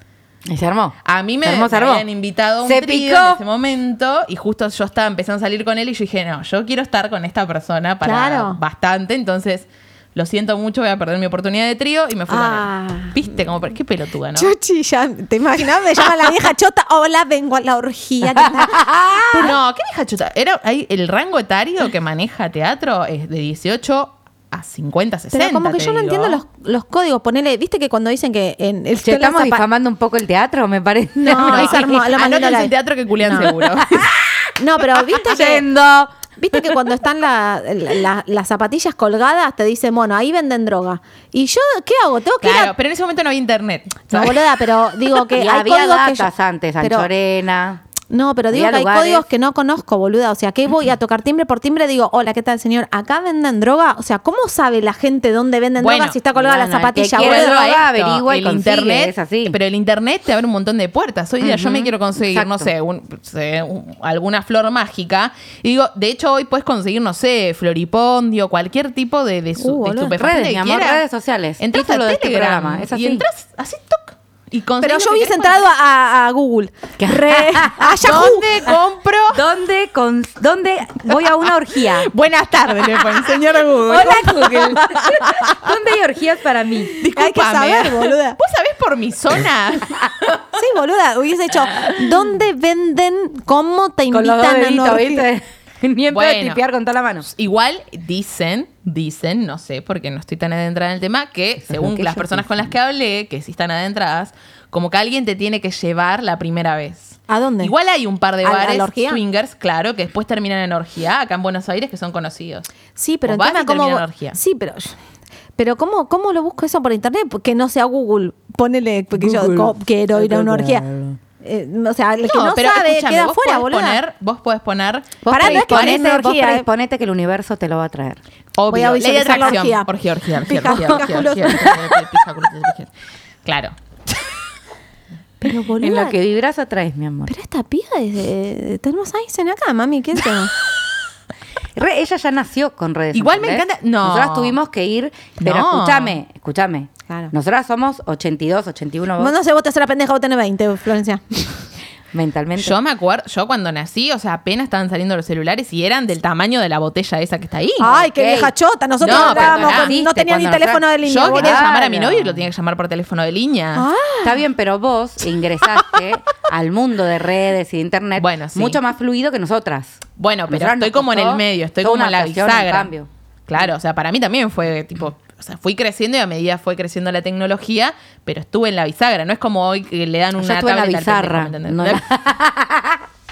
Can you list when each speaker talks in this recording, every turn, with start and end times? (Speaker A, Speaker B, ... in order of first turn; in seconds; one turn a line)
Speaker A: 0.5-2.1
Speaker B: 1.1-14.5
Speaker A: 2.6-3.4
Speaker C: 8.0-8.6
Speaker C: 12.3-13.2
Speaker C: 14.3-19.6
Speaker A: 18.2-19.6
Speaker B: 19.4-26.4
Speaker C: 25.3-29.6
Speaker A: 29.0-32.2
Speaker C: 31.2-32.7
Speaker B: 31.3-34.1
Speaker C: 33.2-33.5
Speaker A: 33.2-36.8
Speaker C: 34.6-35.7
Speaker C: 36.4-42.7
Speaker B: 42.4-44.4
Speaker C: 44.1-47.1
Speaker A: 45.1-47.8
Speaker C: 48.1-57.6
Speaker A: 48.5-49.3
Speaker B: 55.8-56.2
Speaker A: 56.4-59.6
Speaker B: 57.1-71.0
Speaker A: 61.4-62.7
Speaker C: 69.6-70.2
Speaker A: 70.1-73.3
Speaker B: 71.6-75.6
Speaker C: 74.8-78.6
Speaker A: 77.0-78.4
Speaker B: 78.0-79.5
Speaker A: 79.3-82.1
Speaker B: 81.8-85.7
Speaker A: 82.9-87.0
Speaker B: 87.0-90.4
Speaker C: 87.2-88.4
Speaker C: 90.5-95.3
Speaker A: 94.1-97.3
Speaker B: 96.1-96.6
Speaker B: 97.3-112.7
Speaker A: 101.7-102.7
Speaker C: 107.3-107.7
Speaker C: 108.4-109.2
Speaker C: 113.0-115.0
Speaker B: 113.3-114.4
Speaker C: 115.6-120.8
Speaker A: 119.2-121.2
Speaker C: 121.4-124.0
Speaker B: 122.3-126.1
Speaker A: 125.2-128.2
Speaker C: 125.3-126.7
Speaker B: 128.6-132.9
Speaker C: 128.7-129.9
Speaker C: 130.4-132.0
Speaker A: 130.7-131.1
Speaker B: 133.4-133.7
Speaker C: 135.4-136.2
Speaker A: 135.8-137.3
Speaker C: 137.3-140.5
Speaker A: 141.8-149.3
Speaker B: 143.1-144.6
Speaker B: 145.4-146.2
Speaker C: 149.2-151.5
Speaker A: 152.1-152.8
Speaker B: 152.6-157.9
Speaker C: 157.8-161.7
Speaker A: 157.8-162.4
Speaker B: 159.0-159.9
Speaker B: 161.1-163.9
Speaker C: 163.8-164.4
Speaker A: 164.2-173.1
Speaker B: 168.2-168.8
Speaker B: 170.2-172.9
Speaker B: 173.5-182.0
Speaker A: 180.4-183.1